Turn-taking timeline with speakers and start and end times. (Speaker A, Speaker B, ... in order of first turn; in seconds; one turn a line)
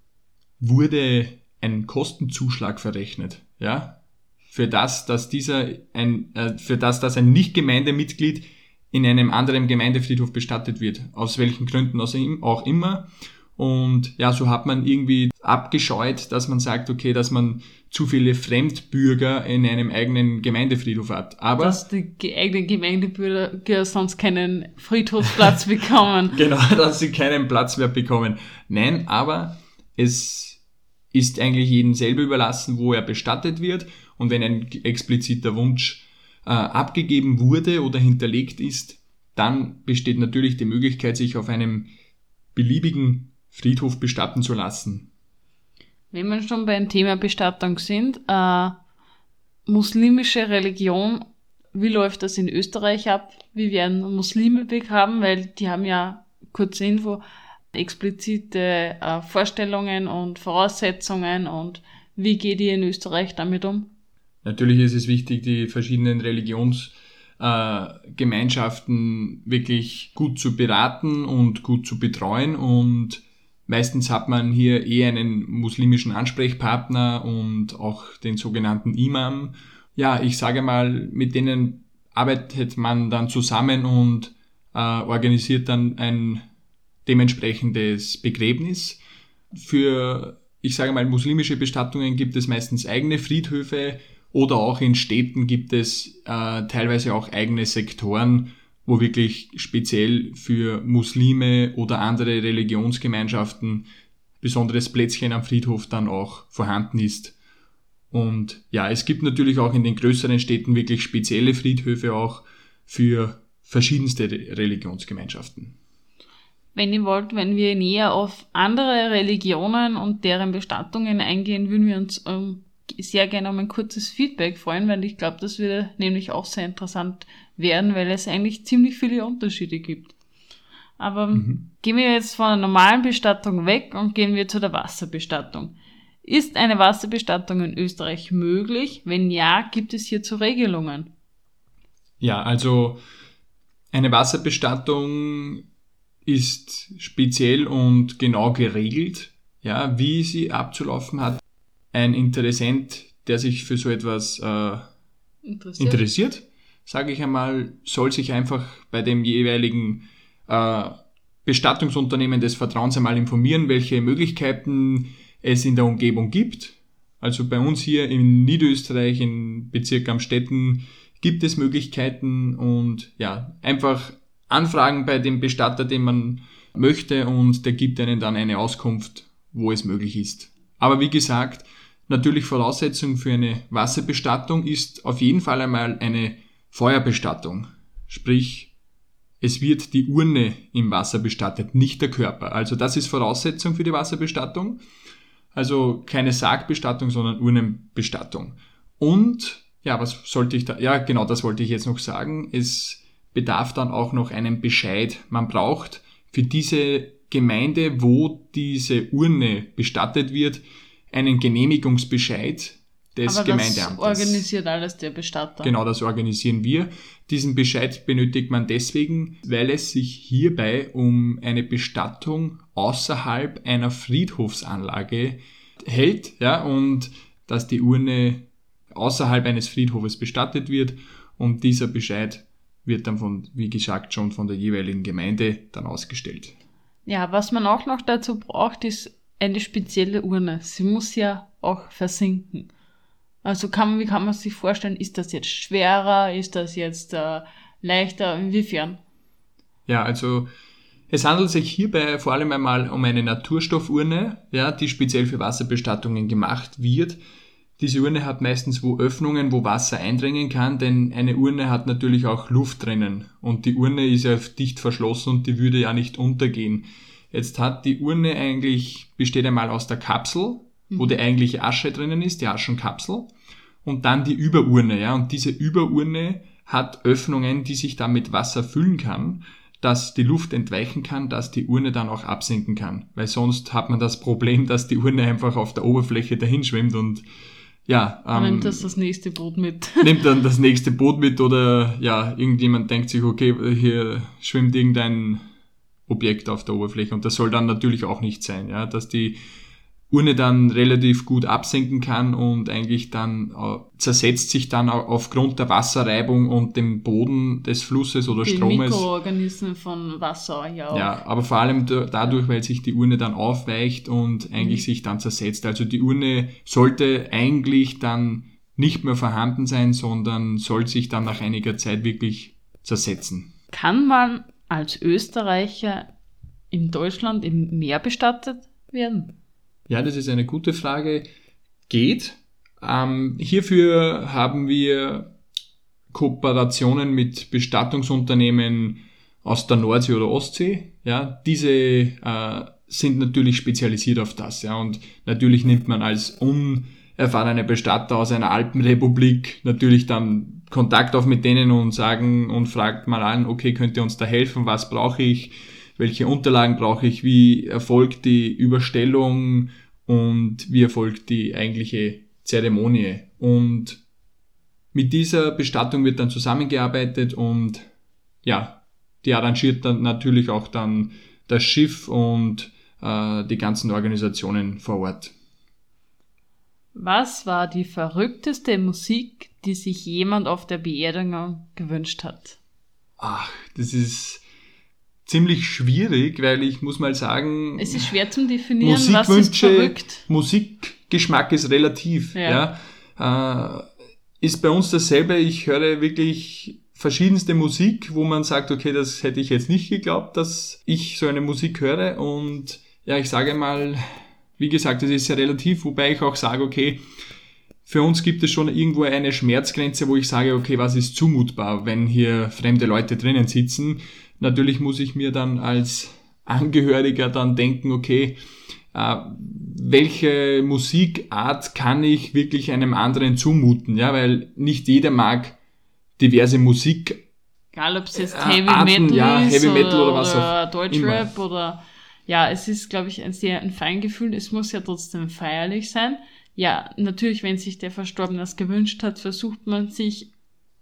Speaker A: 0.6-4.0
Speaker A: 4.5-21.8
Speaker B: 21.6-26.4
Speaker A: 26.3-30.6
Speaker A: 31.1-41.9
Speaker A: 42.5-45.1
Speaker B: 46.1-48.8
Speaker B: 49.7-51.2
Speaker B: 51.7-57.2
Speaker B: 57.7-63.9
Speaker A: 64.5-86.4
Speaker A: 87.1-89.0
Speaker A: 89.5-103.9
Speaker A: 104.4-107.4
Speaker A: 108.1-115.8
Speaker B: 116.8-130.2
Speaker B: 131.0-141.1
Speaker A: 131.3-131.6
Speaker A: 142.2-143.0
Speaker A: 143.9-145.6
Speaker A: 146.2-151.4
Speaker A: 151.9-154.8
Speaker B: 155.4-156.0
Speaker A: 155.8-188.7
Speaker A: 189.4-194.8
Speaker A: 195.6-214.4
Speaker B: 213.3-215.7
Speaker A: 215.6-236.6
Speaker B: 237.1-242.7
Speaker B: 243.4-249.0
Speaker A: 249.9-250.5
Speaker A: 251.1-257.2
Speaker A: 257.8-273.3
Speaker B: 270.9-271.2
Speaker A: 273.8-287.2
Speaker A: 287.9-288.9
Speaker B: 288.4-290.2
Speaker A: 290.0-295.4
Speaker A: 296.1-299.4
Speaker A: 300.1-309.1
Speaker B: 308.4-311.2
Speaker A: 310.9-323.5
Speaker B: 314.6-314.8
Speaker B: 323.7-326.1
Speaker B: 326.7-329.3
Speaker A: 329.9-331.3
Speaker A: 331.9-335.3
Speaker A: 336.1-364.0
Speaker A: 364.9-367.9
Speaker A: 368.4-375.3
Speaker B: 376.9-382.6
Speaker A: 383.2-384.4
Speaker A: 385.3-388.1
Speaker B: 387.8-390.2
Speaker A: 388.8-393.9
Speaker B: 392.4-392.6
Speaker A: 394.4-404.0
Speaker A: 404.6-407.0
Speaker A: 407.9-418.4
Speaker A: 418.9-425.6
Speaker A: 426.2-427.2
Speaker B: 427.7-440.3
Speaker A: 428.1-431.3